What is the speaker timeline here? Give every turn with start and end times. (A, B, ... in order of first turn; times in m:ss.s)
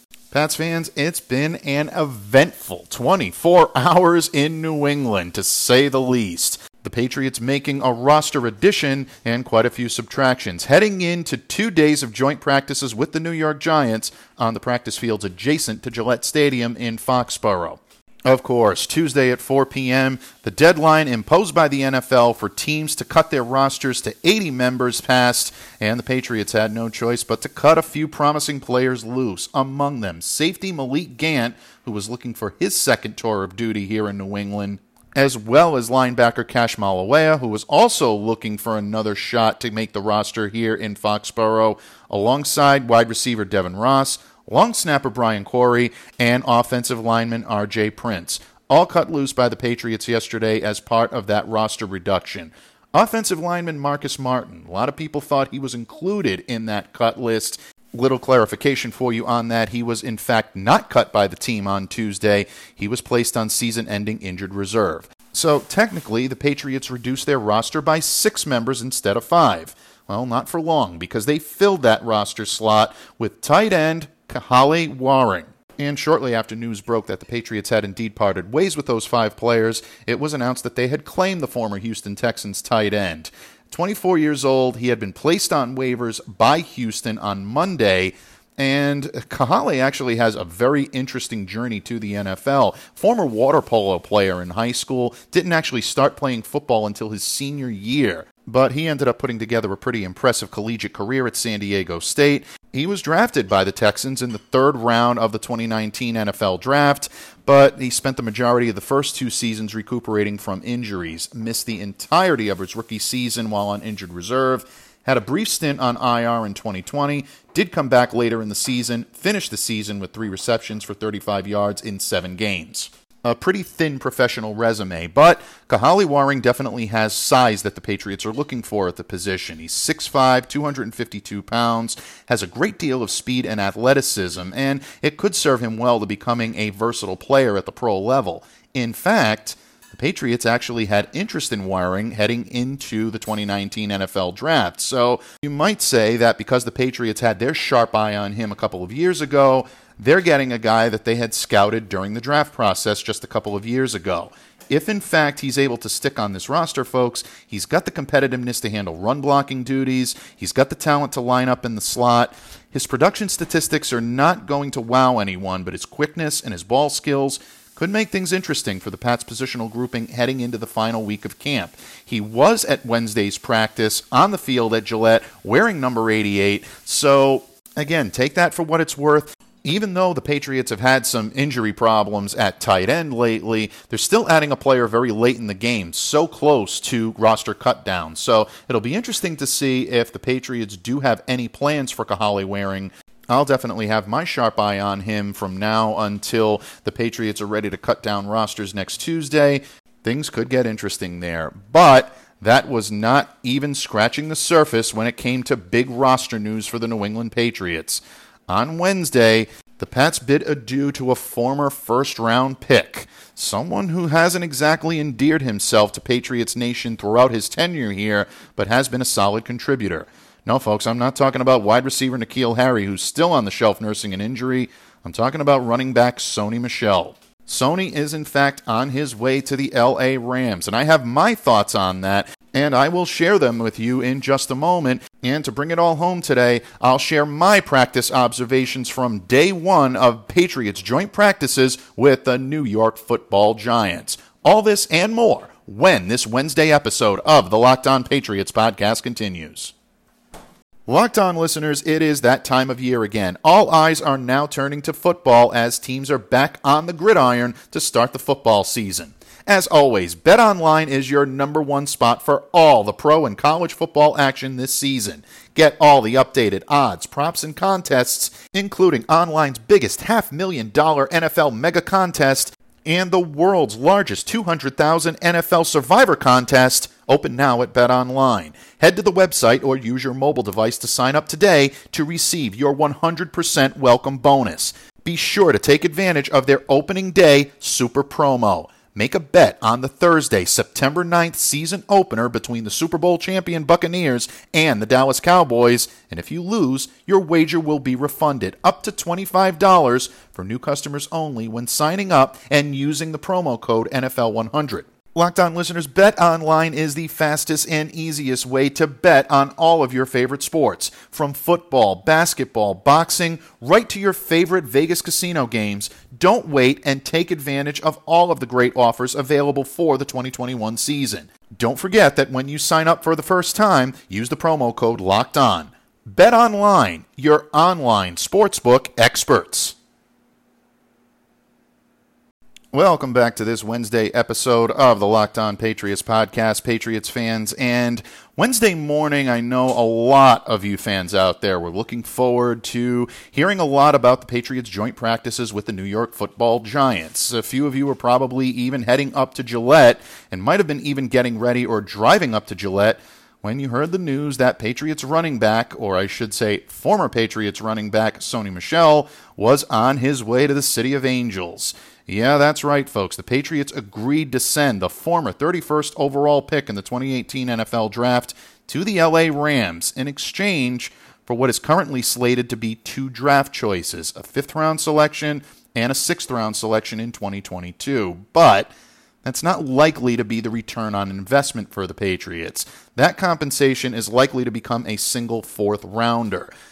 0:00.3-4:09.7 A
4:10.9-5:29.8 A
5:32.7-6:18.7 A
6:19.2-6:26.5 A